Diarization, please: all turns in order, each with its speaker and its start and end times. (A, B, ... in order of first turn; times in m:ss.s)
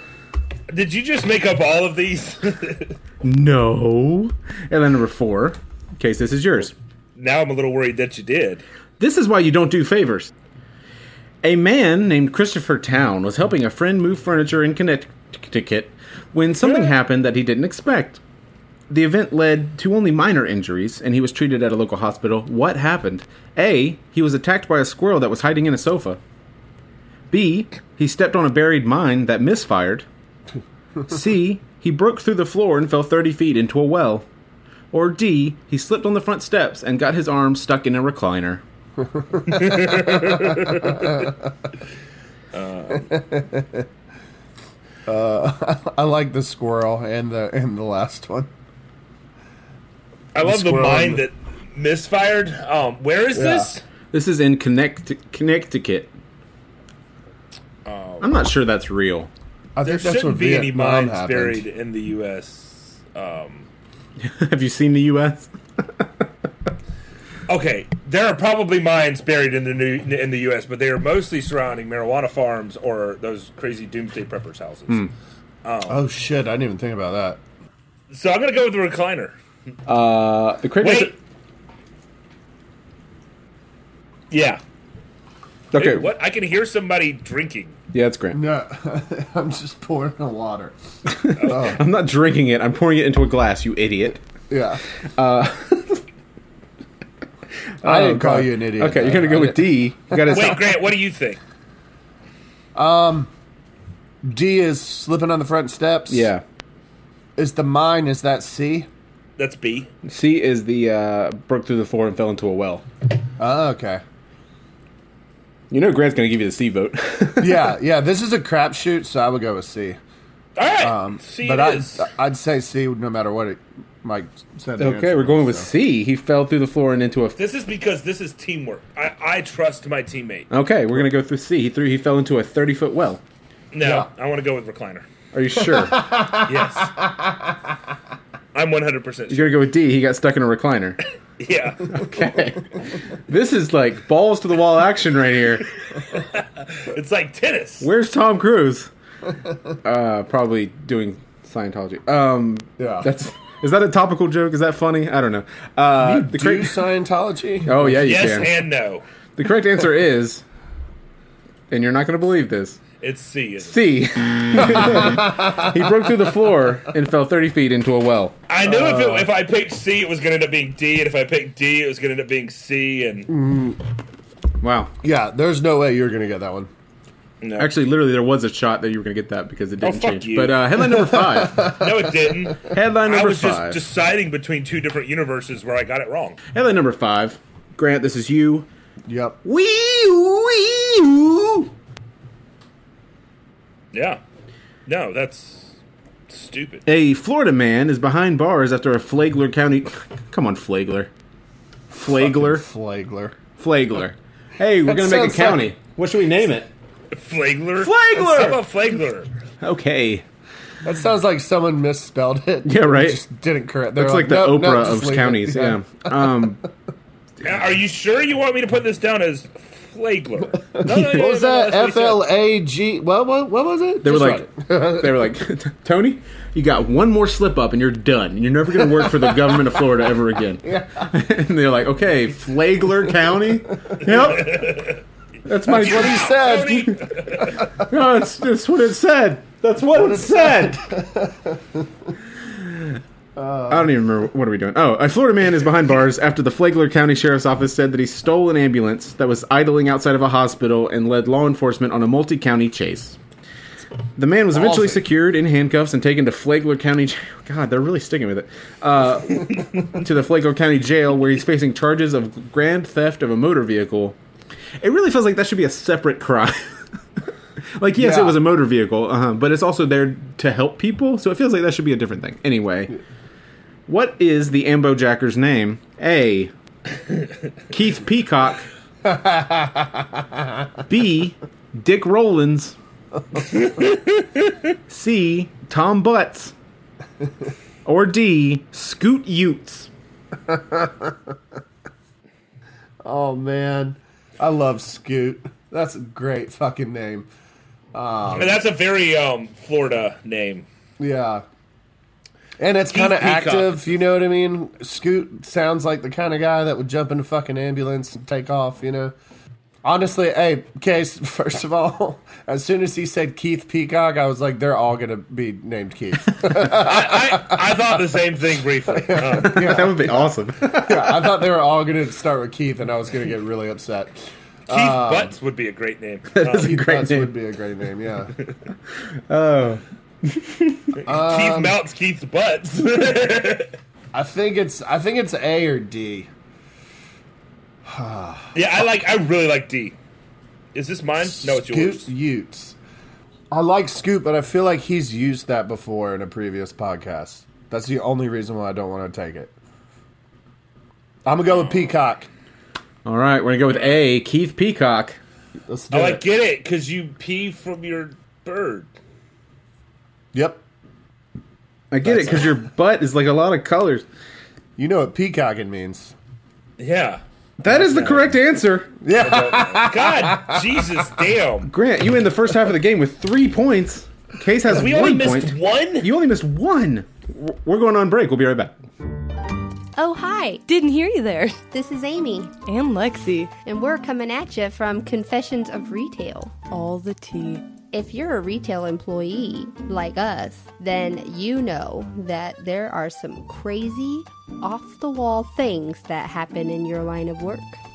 0:00.7-0:03.0 A
0:03.2-0:06.7 B
0:07.2-0:08.6 A
0:09.0-0:10.3 B
0:11.4-0:18.2 B
0:18.9-0:26.2 B
0:27.3-0:30.0 B
0:31.1-0:34.2 B
0:34.9-0:38.6 B
0:39.0-0:41.3 C
0:39.5-0:41.1 A
0:42.5-0:43.1 A
0:43.1-0:43.8 C
0:45.1-0:48.5 C
0:50.3-0:53.8 A
0:50.4-0:51.2 C
0:53.3-0:53.7 C
0:54.1-0:56.1 B
0:57.8-0:58.3 A
0:58.2-0:59.3 B
0:59.7-1:01.6 C
0:59.8-1:03.7 A
1:04.2-1:06.1 B
1:07.5-1:15.1 A
1:15.6-1:16.0 A
1:15.9-1:17.4 C
1:18.1-1:19.3 A
1:19.8-1:21.1 B
1:20.8-1:21.2 A
1:24.3-1:24.6 A
1:25.7-1:26.1 B
1:25.7-1:27.8 A
1:27.9-1:28.4 B
1:28.3-1:30.7 C
1:31.1-1:34.2 B
1:31.4-1:31.8 A
1:31.4-1:31.8 C
1:34.5-1:34.8 C
1:35.2-1:36.0 B
1:37.8-1:40.7 B
1:37.8-1:40.3 C
1:40.3-1:41.4 A
1:42.7-1:43.3 C
1:44.2-1:46.3 C
1:46.1-1:46.4 B
1:47.4-1:48.9 C
1:49.4-1:49.9 A
1:50.0-1:52.8 B
1:53.4-1:54.0 C
1:55.7-1:57.7 B
1:57.4-2:00.0 C
2:00.6-2:02.1 A
2:00.8-2:05.7 C
2:04.8-2:07.4 B
2:07.4-2:10.5 A
2:10.5-2:13.2 B
2:13.7-2:15.0 A
2:15.3-2:16.2 B
2:15.8-2:17.5 C
2:16.4-2:17.0 A
2:18.5-2:19.6 A
2:19.3-2:21.0 B
2:21.4-2:22.0 A
2:21.9-2:25.7 B
2:26.1-2:27.9 A
2:27.8-2:28.9 B
2:29.8-2:36.8 B
2:32.8-2:33.1 C
2:36.0-2:38.2 C
2:37.6-2:38.5 B
2:38.0-2:39.0 A
2:39.4-2:40.4 B
2:41.7-2:42.8 B
2:43.0-2:44.0 A
2:43.6-2:48.4 B
2:44.8-2:45.7 C
2:48.5-2:53.3 A
2:48.6-2:49.3 C
2:53.3-2:53.8 C
2:54.6-2:54.9 B
2:55.0-2:56.7 C
2:57.4-2:57.7 A
2:57.6-3:01.7 B
2:59.8-3:00.6 A
3:01.5-3:06.4 A
3:01.6-3:01.8 C
3:02.7-3:03.8 B
3:06.5-3:08.7 B
3:09.1-3:09.4 C
3:09.4-3:11.7 B
3:13.9-3:14.2 A
3:14.8-3:15.7 A
3:16.3-3:16.8 A
3:16.8-3:21.1 B
3:21.9-3:22.6 B
3:22.0-3:23.4 C
3:23.6-3:26.7 B
3:24.8-3:25.7 C
3:27.1-3:29.3 A
3:27.8-3:28.6 B
3:29.6-3:30.2 B
3:30.8-3:36.5 C
3:32.6-3:33.2 B
3:33.9-3:36.6 B
3:37.4-3:42.2 A
3:40.8-3:45.3 C
3:44.0-3:54.9 B
3:48.8-3:49.7 C
3:50.6-3:51.1 C
3:54.0-3:55.0 A
3:55.4-3:57.0 B
3:55.6-3:57.0 C
3:55.7-3:57.7 A
3:57.8-4:00.8 B
3:59.9-4:01.8 C
4:02.6-4:03.0 B
4:03.4-4:03.9 C
4:03.7-4:13.2 B
4:14.2-4:24.2 B
4:14.5-4:15.0 C
4:24.8-4:26.8 B
4:27.8-4:32.9 B
4:28.0-4:28.4 C
4:33.9-4:36.5 B
4:37.7-4:38.6 B
4:39.0-4:40.2 C
4:40.9-4:42.8 B
4:43.6-4:44.2 A
4:44.9-4:46.5 B
4:47.8-4:49.9 B
4:50.5-4:51.1 C
4:53.0-4:57.3 C
4:57.9-4:58.6 C
4:58.3-5:00.6 A
5:01.0-5:01.4 C
5:02.6-5:09.1 C
5:02.9-5:03.8 A
5:09.8-5:17.6 C
5:16.6-5:19.8 A
5:19.0-5:24.2 C
5:19.4-5:21.4 B
5:24.7-5:25.3 C
5:24.7-5:26.7 A
5:26.3-5:27.3 B
5:26.5-5:28.3 C
5:29.3-5:31.0 B
5:31.0-5:33.7 A
5:31.0-5:31.8 C
5:34.1-5:36.3 C
5:37.8-5:38.6 C
5:38.5-5:40.0 A
5:40.7-5:42.1 A
5:41.2-5:42.8 C
5:43.5-5:49.5 C
5:51.2-5:52.3 C
5:53.0-5:55.2 B
5:55.7-5:56.2 C
5:55.9-5:58.9 A
6:00.3-6:00.6 C
6:01.9-6:04.0 B
6:04.8-6:06.1 C
6:06.8-6:07.2 A
6:07.6-6:08.9 B
6:07.7-6:08.3 A
6:09.0-6:10.7 C
6:09.2-6:11.7 A
6:11.6-6:18.7 B
6:14.7-6:16.1 A
6:20.0-6:20.6 D
6:20.7-6:21.6 E
6:21.7-6:22.5 D
6:22.6-6:23.5 E
6:23.6-6:26.6 D
6:26.7-6:27.6 E
6:27.9-6:37.8 D